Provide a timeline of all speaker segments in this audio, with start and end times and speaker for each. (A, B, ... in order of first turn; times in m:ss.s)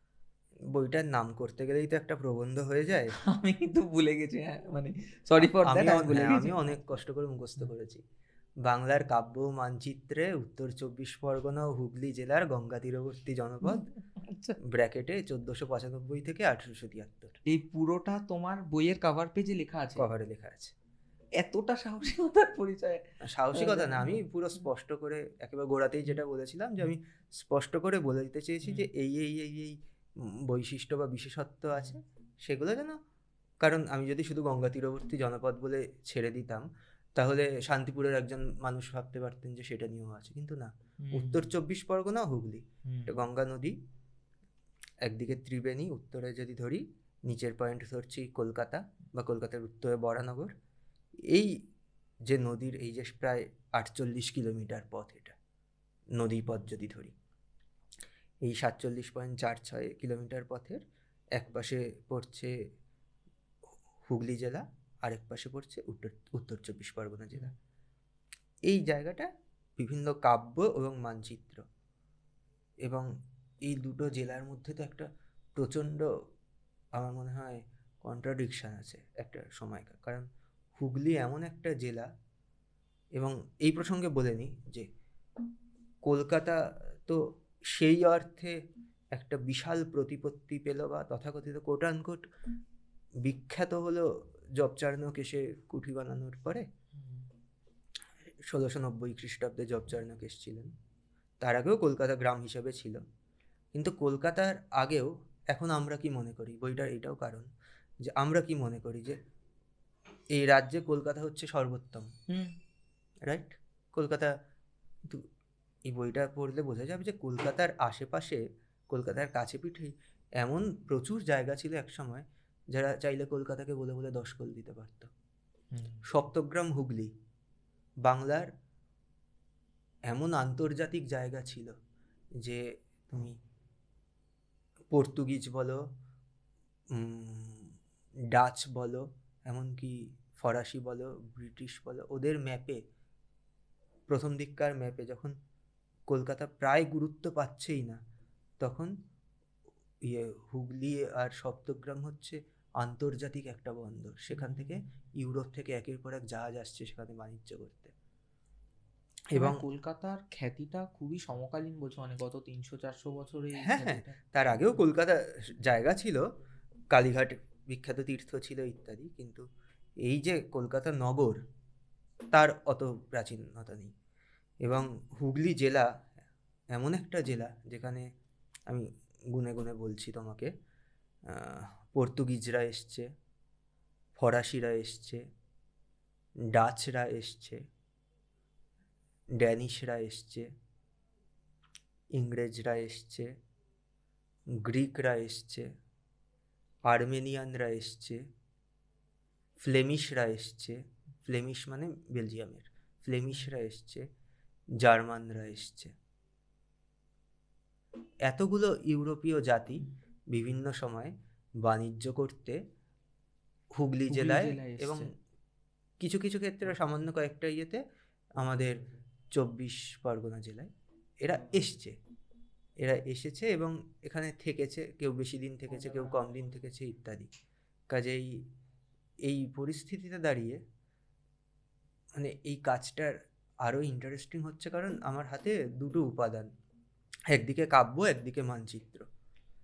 0:00.7-0:03.1 A
0:03.2-0:06.8 B
0:05.4-0:08.0 A
0:08.6-0:13.9 A
0:13.6-0:14.6 B
0:14.7-0:17.3 A
0:17.5-0:20.1 B
0:20.0-0:20.7 A
0:21.4-0:24.2 B
0:23.2-0:33.0 A
0:33.6-0:36.7 A
0:37.2-0:43.8 A
0:41.0-0:41.5 B
0:45.0-0:50.5 A
0:52.3-0:55.3 A
0:56.2-0:57.1 A
0:58.4-1:00.8 A
1:01.4-1:02.5 A
1:04.1-1:07.5 A
1:08.7-1:11.6 A
1:13.6-1:16.1 A
1:17.0-1:20.2 A
1:20.8-1:22.1 A
1:23.2-1:24.9 A
1:26.0-1:28.6 A
1:29.2-1:32.2 A
1:33.2-1:34.1 A
1:34.6-1:36.6 A
1:37.0-1:37.3 B
1:38.5-1:40.7 A
1:41.4-1:43.0 A
1:43.8-1:47.5 A
1:48.0-1:49.2 A
1:50.4-1:52.1 A
1:52.3-1:52.5 B
1:53.3-1:54.3 A
1:55.9-2:05.1 A
2:05.7-2:06.0 B
2:06.1-2:07.1 A
2:08.0-2:08.5 A
2:10.1-2:11.7 A
2:12.4-2:13.3 A
2:14.9-2:15.8 A
2:16.9-2:17.8 A
2:18.3-2:22.8 A
2:24.1-2:25.3 A
2:26.1-2:28.0 A
2:28.6-2:28.9 A
2:30.0-2:37.9 A
2:34.3-2:34.9 B
2:39.3-2:39.6 A
2:39.3-2:44.8 B
2:43.6-2:46.2 A
2:46.9-2:49.4 A
2:50.0-2:51.4 A
2:52.3-2:53.9 A
2:54.6-2:55.9 A
2:56.7-2:58.1 A
2:58.7-3:00.5 A
3:01.3-3:03.1 A
3:04.2-3:05.2 A
3:06.5-3:07.6 A
3:09.4-3:10.5 A
3:12.1-3:13.3 A
3:14.6-3:15.7 A
3:16.8-3:18.2 A
3:19.6-3:24.0 A
3:24.8-3:25.9 A
3:28.3-3:32.6 A
3:33.8-3:35.1 A
3:34.1-3:35.1 B
3:36.0-3:37.8 A
3:38.4-3:40.7 A
3:41.2-3:42.0 A
3:42.8-3:47.3 A
3:47.9-3:48.4 A
3:49.2-3:50.6 A
3:52.2-3:56.5 A
3:57.3-3:59.1 A